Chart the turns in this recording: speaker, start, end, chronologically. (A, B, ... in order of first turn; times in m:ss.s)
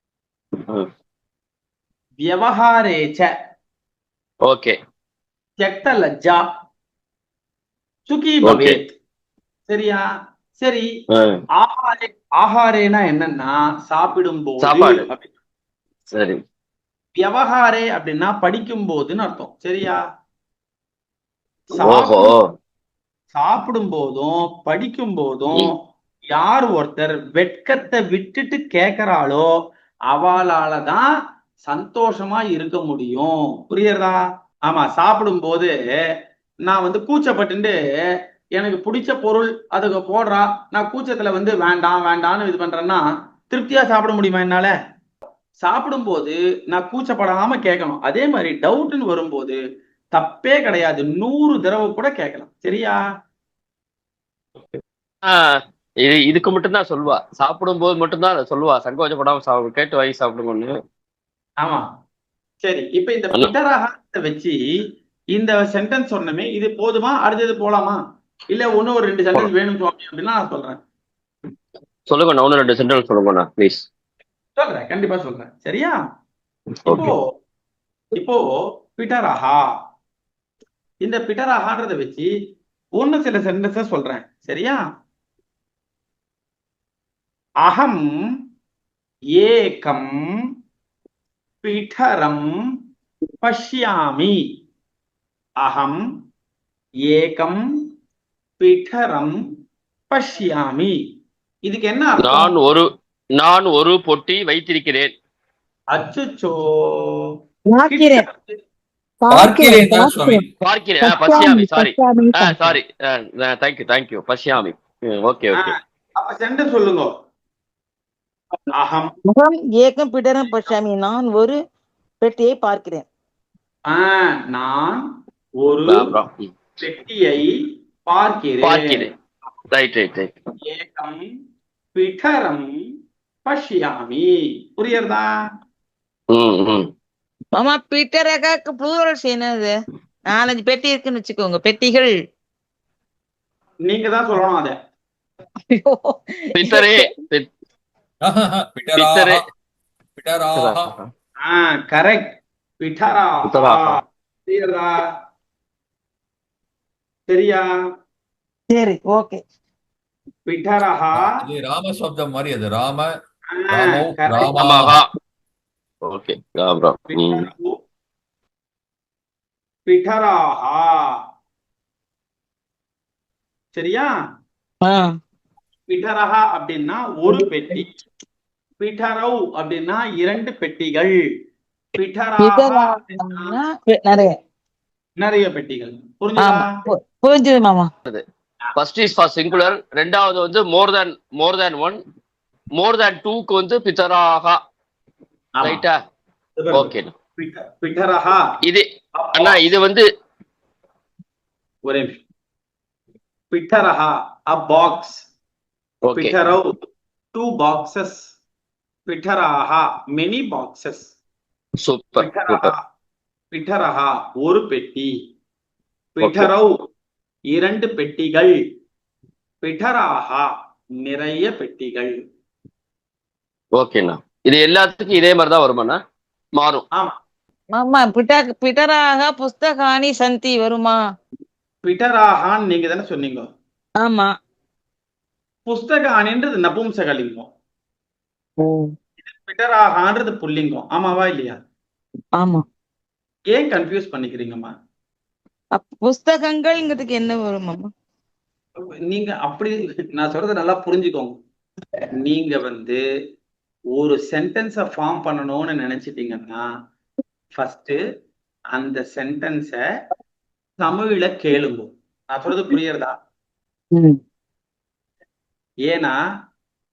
0:02.2-0:03.3 A
0:04.4-0:04.7 B
0:05.6-0:06.4 A
0:08.1-0:08.9 A
0:08.4-0:08.7 B
0:09.7-0:10.0 A
0:10.6-0:10.8 A
0:11.6-0:15.3 A
0:14.6-0:15.1 B
0:16.1-0:16.4 B
0:17.2-0:20.0 A
0:21.7-0:22.3 A
0:21.8-0:22.4 B
0:23.3-0:25.7 A
0:26.3-0:29.5 A
0:30.1-0:31.1 A
0:31.6-0:35.7 A
0:36.6-0:37.7 A
0:38.6-0:44.7 A
0:45.6-0:49.6 A
0:50.1-0:53.0 A
0:54.6-0:55.3 B
0:56.0-1:00.7 B
1:02.6-1:04.6 A
1:05.3-1:08.0 A
1:08.5-1:10.8 A
1:12.1-1:13.8 B
1:14.6-1:16.0 A
1:16.9-1:17.2 A
1:18.1-1:18.4 A
1:19.0-1:19.6 A
1:21.0-1:22.3 A
1:23.0-1:24.8 A
1:27.6-1:28.1 A
1:29.4-1:30.1 A
1:31.6-1:32.5 A
1:33.4-1:34.4 A
1:35.6-1:36.0 A
1:37.1-1:37.6 A
1:38.6-1:39.4 A
1:40.1-1:40.9 A
1:41.6-1:42.5 A
1:42.2-1:42.9 B
1:43.4-1:45.1 B
1:45.9-1:47.2 A
1:47.7-1:48.2 C
1:47.9-1:48.6 A
1:49.2-1:50.4 C
1:49.3-1:50.5 D
1:50.6-1:55.7 B
1:51.0-1:52.7 C
1:55.6-1:57.1 A
1:58.7-1:59.1 A
1:59.3-2:01.6 C
2:02.2-2:03.0 C
2:03.9-2:05.0 A
2:05.6-2:06.0 A
2:05.9-2:06.5 B
2:06.8-2:07.5 A
2:08.1-2:09.0 A
2:08.6-2:09.1 B
2:09.7-2:10.3 B
2:10.7-2:11.2 A
2:11.9-2:12.7 A
2:13.4-2:15.2 A
2:16.3-2:16.8 B
2:17.6-2:19.7 C
2:20.3-2:22.1 C
2:23.9-2:24.7 A
2:25.7-2:26.9 C
2:26.5-2:27.5 B
2:28.2-2:29.4 D
2:28.9-2:29.4 B
2:30.2-2:30.9 D
2:30.5-2:31.1 B
2:31.4-2:35.1 A
2:33.5-2:34.0 B
2:37.3-2:37.6 A
2:38.7-2:39.4 C
2:40.5-2:41.3 A
2:41.1-2:43.2 D
2:43.6-2:44.5 A
2:43.7-2:45.0 D
2:44.6-2:45.1 B
2:46.0-2:47.4 B
2:47.1-2:47.7 A
2:49.8-2:51.2 A
2:53.7-2:54.1 A
2:54.8-2:55.1 C
2:55.9-2:57.9 A
2:57.3-2:57.8 C
2:58.8-3:01.1 A
3:02.0-3:03.6 A
3:02.4-3:04.4 C
3:05.2-3:06.6 A
3:06.4-3:07.9 C
3:08.8-3:12.0 B
3:12.8-3:14.6 B
3:15.5-3:15.8 A
3:15.6-3:16.0 B
3:16.6-3:18.4 A
3:16.7-3:17.1 B
3:19.2-3:19.6 A
3:19.4-3:20.0 B
3:21.8-3:22.2 A
3:23.5-3:25.2 A
3:26.0-3:26.4 B
3:26.1-3:26.7 A
3:27.3-3:28.2 A
3:29.1-3:31.1 A
3:31.8-3:32.7 B
3:32.2-3:32.8 A
3:33.5-3:35.1 A
3:36.2-3:36.7 A
3:36.2-3:36.5 B
3:37.5-3:38.5 A
3:39.6-3:40.5 A
3:41.0-3:42.1 A
3:43.8-3:46.0 B
3:46.6-3:46.8 B
3:47.7-3:51.0 C
3:51.8-3:53.4 A
3:54.0-3:54.3 C
3:55.6-3:57.5 A
3:58.6-3:58.9 C
3:59.2-4:01.6 A
4:03.5-4:04.7 A
4:05.8-4:07.9 C
4:09.1-4:11.4 A
4:12.2-4:13.0 A
4:14.0-4:16.6 A
4:17.5-4:18.0 A
4:18.7-4:19.8 A
4:20.8-4:23.1 A
4:25.9-4:26.1 A